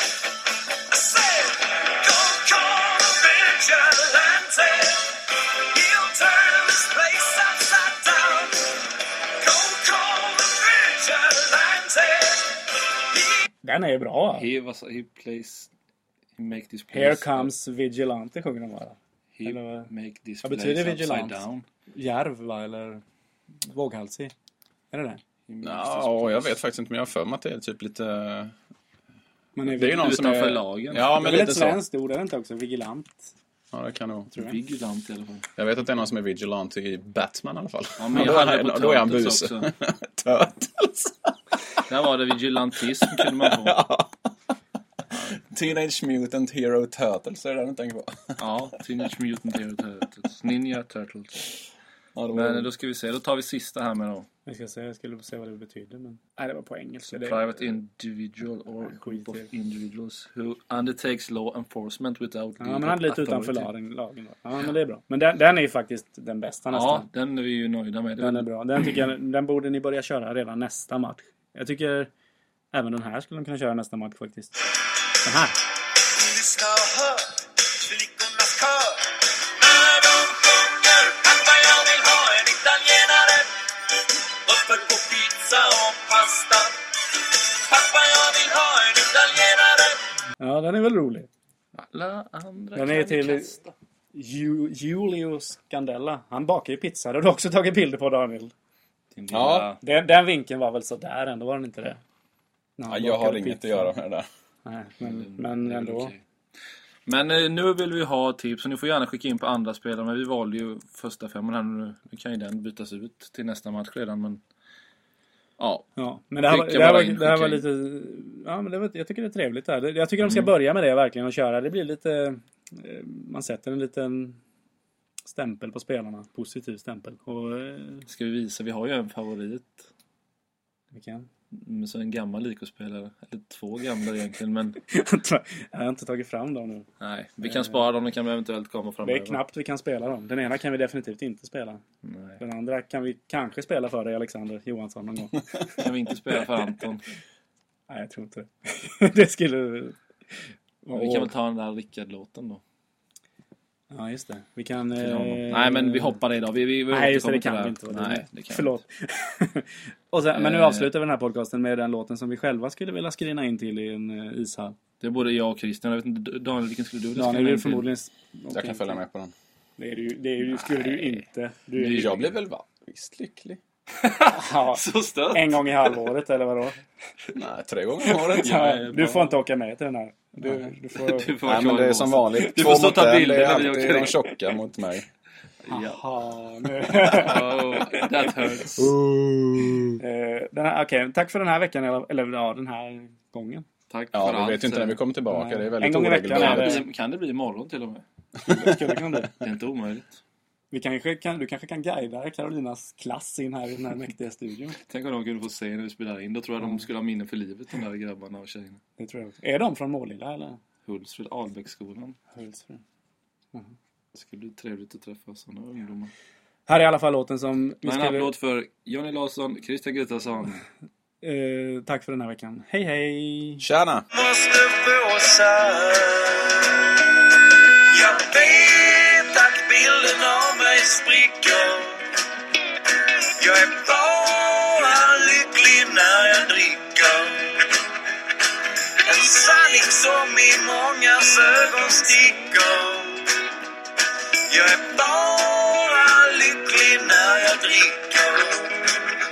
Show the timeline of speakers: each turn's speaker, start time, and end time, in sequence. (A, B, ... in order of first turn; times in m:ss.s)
0:00.9-0:08.8 A
0:09.4-0:13.4 A
0:13.6-0:14.5 B
0:14.4-0:15.7 C
0:16.4-0:17.5 C
0:16.9-0:19.9 B
0:19.4-0:21.6 C
0:20.4-0:21.4 B
0:21.9-0:23.0 B
0:23.7-0:24.3 B
0:24.9-0:25.2 B
0:25.5-0:26.5 C
0:25.6-0:28.5 D
0:29.6-0:30.2 B
0:29.7-0:31.8 D
0:29.8-0:31.5 C
0:31.2-0:33.3 B
0:33.7-0:34.3 D
0:34.4-0:35.5 C
0:35.6-0:41.4 D
0:38.0-0:39.7 C
0:41.9-0:43.8 C
0:43.0-0:44.3 D
0:45.3-0:48.4 D
0:48.4-0:51.5 C
0:52.2-0:52.7 D
0:52.3-0:54.3 C
0:54.5-0:57.5 B
0:57.1-1:03.7 C
0:58.8-0:59.5 B
1:02.6-1:07.1 B
1:06.7-1:08.5 C
1:08.2-1:12.1 B
1:12.7-1:14.6 B
1:15.2-1:15.6 B
1:16.2-1:30.0 A
1:30.4-1:31.3 B
1:31.8-1:33.7 C
1:32.8-1:33.6 B
1:34.1-1:38.5 B
1:39.1-1:39.8 C
1:39.3-1:39.7 D
1:39.8-1:42.0 B
1:42.8-1:43.9 B
1:42.9-1:44.3 D
1:44.6-1:46.1 B
1:45.0-1:46.2 C
1:47.1-1:54.4 C
1:55.6-1:55.9 C
1:56.0-2:04.4 B
1:56.5-1:57.7 C
2:00.2-2:00.5 C
2:05.3-2:08.1 B
2:08.1-2:09.9 C
2:10.9-2:11.3 B
2:11.5-2:14.8 C
2:14.9-2:16.9 B
2:17.0-2:19.4 C
2:17.4-2:17.8 B
2:19.0-2:21.8 B
2:22.0-2:22.4 C
2:22.4-2:25.8 B
2:25.8-2:27.0 C
2:27.9-2:30.0 B
2:30.8-2:31.3 B
2:30.9-2:32.6 C
2:33.9-2:36.2 B
2:35.0-2:38.8 C
2:36.9-2:44.8 B
2:40.4-2:40.9 C
2:45.0-2:47.9 C
2:47.2-2:49.0 B
2:48.5-2:49.3 D
2:49.8-2:52.2 B
2:50.6-2:51.2 C
2:51.8-2:52.2 C
2:52.0-2:53.6 D
2:54.0-2:55.9 C
2:54.3-2:56.8 B
2:57.3-2:58.8 D
2:58.0-3:01.4 B
2:58.3-2:59.4 C
3:01.0-3:04.2 C
3:01.4-3:05.1 D
3:05.6-3:06.0 C
3:05.7-3:08.8 B
3:06.8-3:08.8 C
3:08.8-3:10.0 D
3:10.0-3:13.7 B
3:13.9-3:15.0 C
3:14.1-3:16.8 D
3:15.3-3:16.8 B
3:16.3-3:18.0 C
3:18.4-3:19.3 B
3:18.5-3:18.9 D
3:19.3-3:20.2 C
3:20.7-3:24.8 B
3:24.8-3:28.8 C
3:29.0-3:30.6 B
3:30.8-3:32.2 C
3:32.4-3:32.8 B
3:34.1-3:36.1 C
3:36.7-3:38.3 B
3:37.8-3:40.6 C
3:41.2-3:43.6 B
3:43.6-3:44.1 D
3:44.1-3:46.9 A
3:47.8-3:52.1 A
3:53.4-3:57.7 A
3:59.0-4:03.3 A
4:04.5-4:08.8 A